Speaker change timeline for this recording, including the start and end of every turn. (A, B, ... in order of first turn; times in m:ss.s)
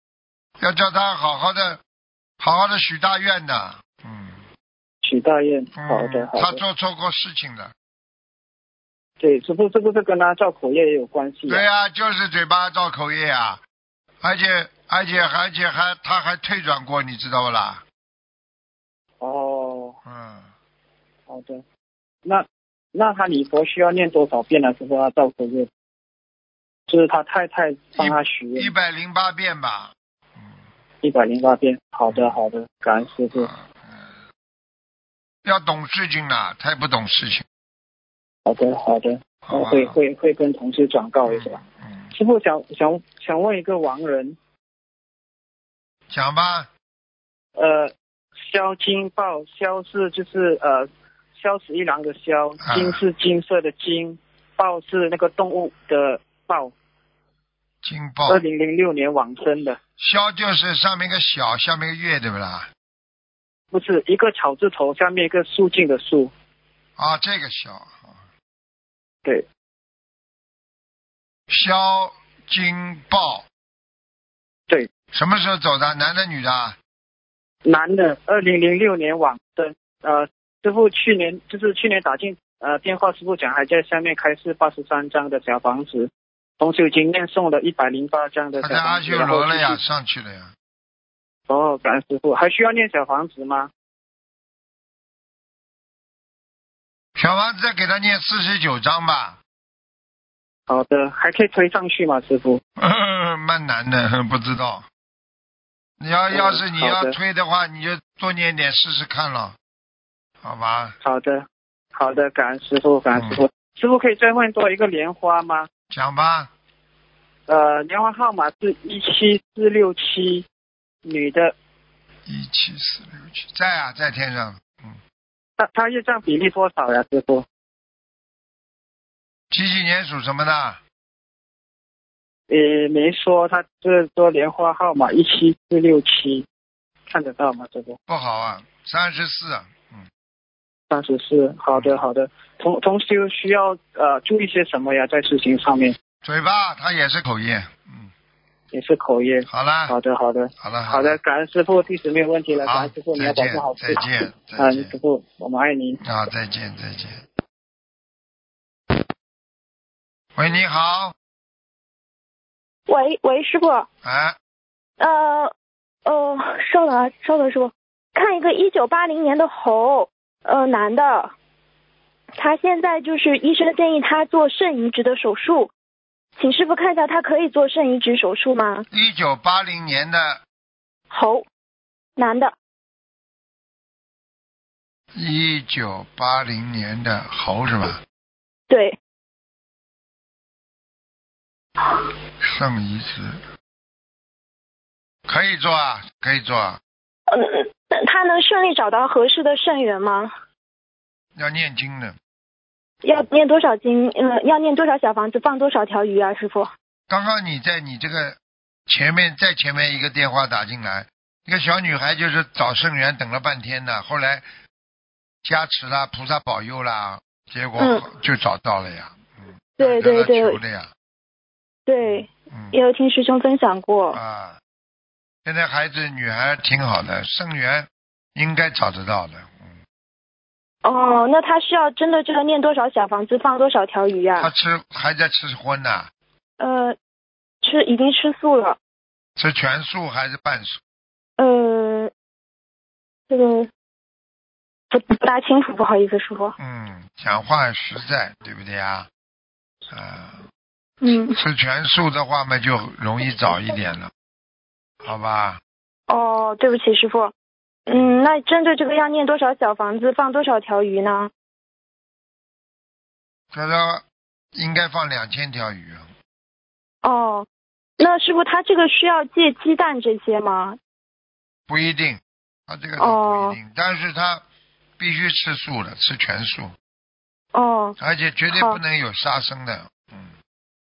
0:00.6-0:01.8 A
0:02.4-0:04.4 A
0:05.0-0:06.6 B
0:05.8-0:07.7 A
0:09.2-0:11.6 B
0:11.5-0:13.6 A
0:14.2-0:17.8 A
0:19.2-0:20.0 B
0:20.0-0:20.5 A
0:21.3-0:21.6 B
0:22.2-0:25.7 B
0:26.9-0:28.7 B
0:28.0-0:30.5 A
0:31.0-0:33.5 B
0:32.1-0:32.4 A
0:33.3-0:34.1 A
0:35.4-0:37.4 A
0:38.4-0:41.6 B
0:39.4-0:40.0 A
0:41.2-0:42.1 A
0:42.1-0:44.4 B
0:46.1-0:46.7 A
0:47.6-0:56.7 B
0:52.6-0:53.0 A
0:57.8-0:58.4 A
0:58.3-0:59.8 B
1:00.0-1:02.7 A
1:03.7-1:06.3 B
1:07.0-1:08.2 A
1:11.5-1:13.4 A
1:15.1-1:16.8 A
1:17.6-1:29.8 B
1:28.6-1:30.5 A
1:31.5-1:33.7 B
1:37.2-1:39.4 A
1:40.7-1:42.6 B
1:42.8-1:44.8 A
1:46.0-1:49.6 A
1:46.3-1:47.2 B
1:50.4-1:50.9 A
1:51.0-1:55.7 B
1:53.1-1:53.4 A
1:55.9-1:56.5 A
1:57.5-2:00.4 B
2:01.0-2:01.5 B
2:02.2-2:05.0 A
2:05.6-2:07.4 B
2:09.5-2:10.8 A
2:12.5-2:16.5 B
2:17.1-2:18.0 B
2:18.1-2:20.1 A
2:20.9-2:25.9 B
2:21.7-2:22.0 A
2:26.2-2:28.1 A
2:28.7-2:36.0 B
2:29.5-2:29.9 A
2:30.6-2:31.2 A
2:32.6-2:34.9 A
2:36.0-2:37.2 A
2:40.4-2:41.1 A
2:42.9-2:43.9 C
2:44.0-2:44.4 A
2:45.0-2:45.5 C
2:46.0-2:51.3 C
2:52.4-2:55.7 C
2:56.4-2:58.8 C
2:58.9-3:00.4 A
3:01.1-3:01.4 C
3:02.2-3:02.5 C
3:05.1-3:08.0 A
3:08.7-3:09.0 C
3:12.4-3:13.4 A
3:15.2-3:16.8 A
3:17.3-3:20.3 C
3:21.4-3:22.2 A
3:23.0-3:26.7 C
3:27.1-3:34.5 A
3:35.4-3:40.9 A
3:37.8-3:38.0 C
3:39.8-3:40.6 C
3:41.8-3:44.2 C
3:42.0-3:42.8 A
3:44.1-3:44.6 A
3:45.4-3:49.8 A
3:50.8-3:54.5 C
3:54.4-3:56.1 A
3:56.6-3:57.0 C
3:57.6-3:58.8 C
3:59.4-4:00.8 A
4:01.4-4:02.1 C
4:03.3-4:03.7 C
4:04.9-4:06.6 C
4:06.6-4:09.1 A
4:09.9-4:10.4 A
4:11.0-4:11.4 C
4:11.3-4:14.1 A
4:15.0-4:15.6 A
4:16.1-4:17.3 C
4:17.9-4:21.3 C
4:23.5-4:26.1 A
4:27.0-4:30.8 C
4:31.7-4:34.4 A
4:33.0-4:33.6 C
4:35.0-4:36.7 A
4:37.5-4:38.0 C
4:38.0-4:40.3 A
4:38.5-4:38.8 C